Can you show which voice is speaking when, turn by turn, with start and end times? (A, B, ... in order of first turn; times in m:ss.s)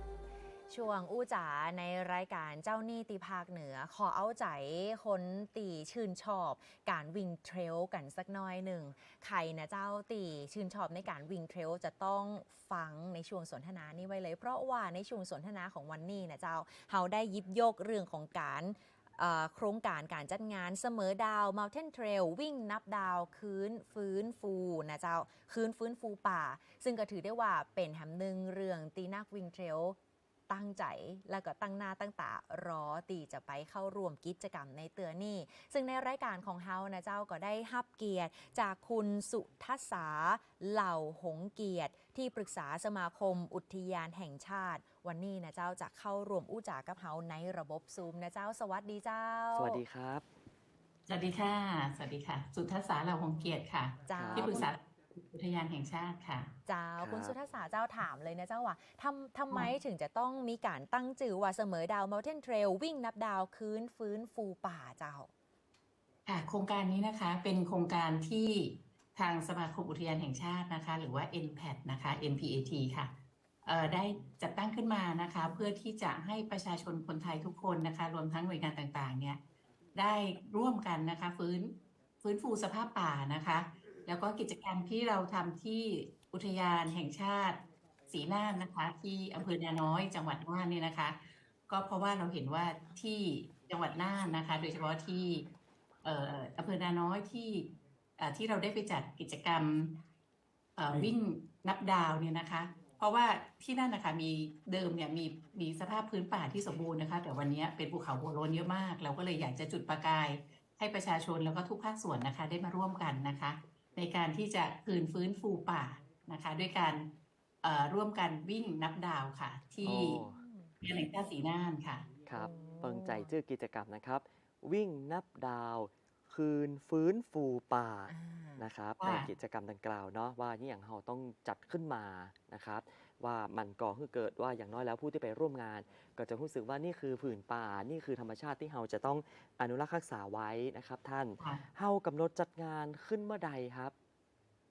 0:00.7-0:30.0 A
0:30.5-0:49.8 A
0:49.6-0:50.2 B
0:51.1-0:56.5 C
0:54.1-0:54.7 A
0:54.1-0:54.7 B
0:56.7-1:05.3 A
0:57.0-0:57.4 B
1:06.3-1:19.4 C
1:19.9-1:35.5 C
1:36.0-1:40.0 C
1:40.8-1:57.1 C
1:57.6-2:00.2 C
1:59.8-2:00.4 B
2:00.1-2:00.8 A
2:00.8-2:02.1 C
2:02.3-2:23.9 B
2:02.3-2:03.3 A
2:08.1-2:08.6 A
2:09.0-2:09.3 C